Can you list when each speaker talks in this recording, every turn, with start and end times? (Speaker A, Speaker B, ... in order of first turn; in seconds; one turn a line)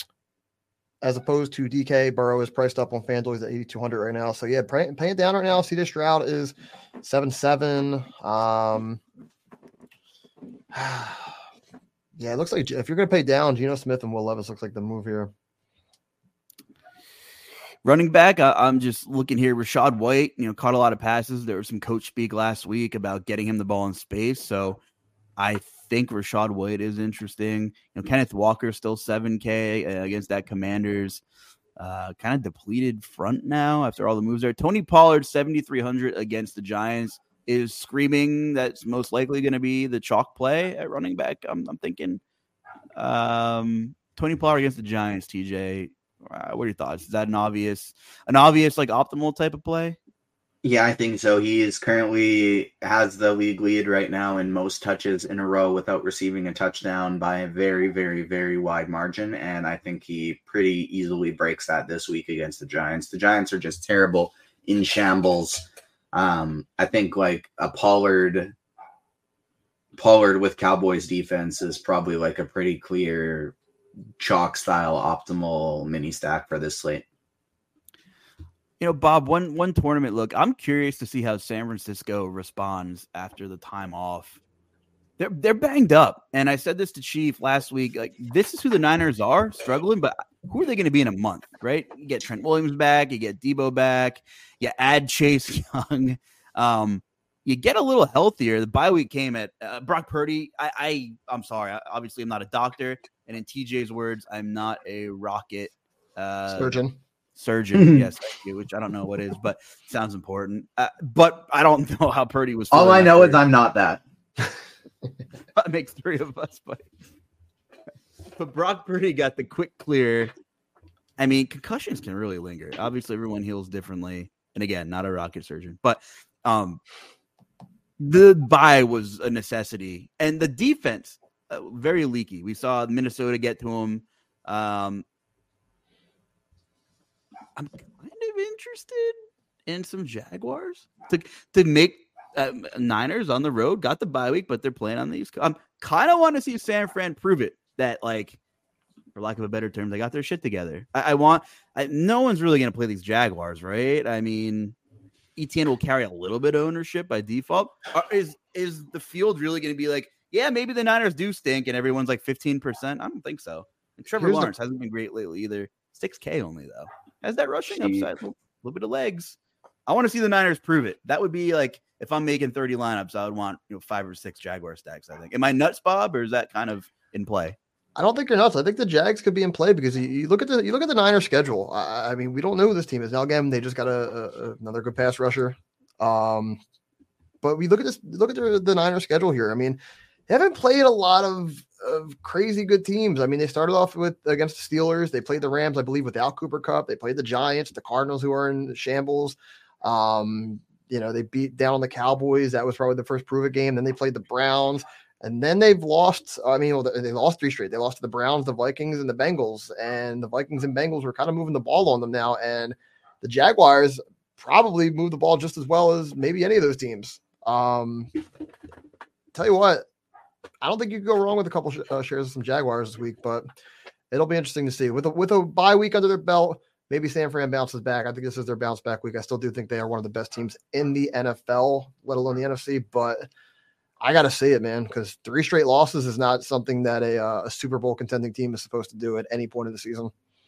Speaker A: 1.0-9.0
Speaker A: 10.7-11.4
Speaker A: 12.2-15.3
Speaker B: 17.8-24.8
Speaker B: 25.4-31.2
Speaker B: 31.8-42.2
Speaker B: 43.0-50.0
Speaker C: 50.6-68.5
Speaker C: 70.0-73.5
Speaker C: 74.2-77.0
Speaker B: 78.8-84.4
Speaker B: 85.2-106.8
Speaker A: 106.5-107.0
Speaker B: 107.4-113.4
Speaker C: 107.8-108.1
Speaker C: 112.7-114.0
Speaker B: 115.5-116.9
Speaker B: 118.4-120.3
Speaker B: 121.2-126.8
Speaker B: 128.0-135.0
Speaker B: 137.6-148.4
Speaker B: 149.2-154.8
Speaker B: 155.4-169.4
Speaker C: 164.2-164.5
Speaker C: 167.7-168.1
Speaker B: 169.9-177.6
Speaker A: 178.0-186.6
Speaker A: 187.4-189.8
Speaker A: 190.3-218.1
Speaker A: 219.3-219.8
Speaker A: 220.6-223.5
Speaker A: 224.1-233.3
Speaker A: 234.0-240.1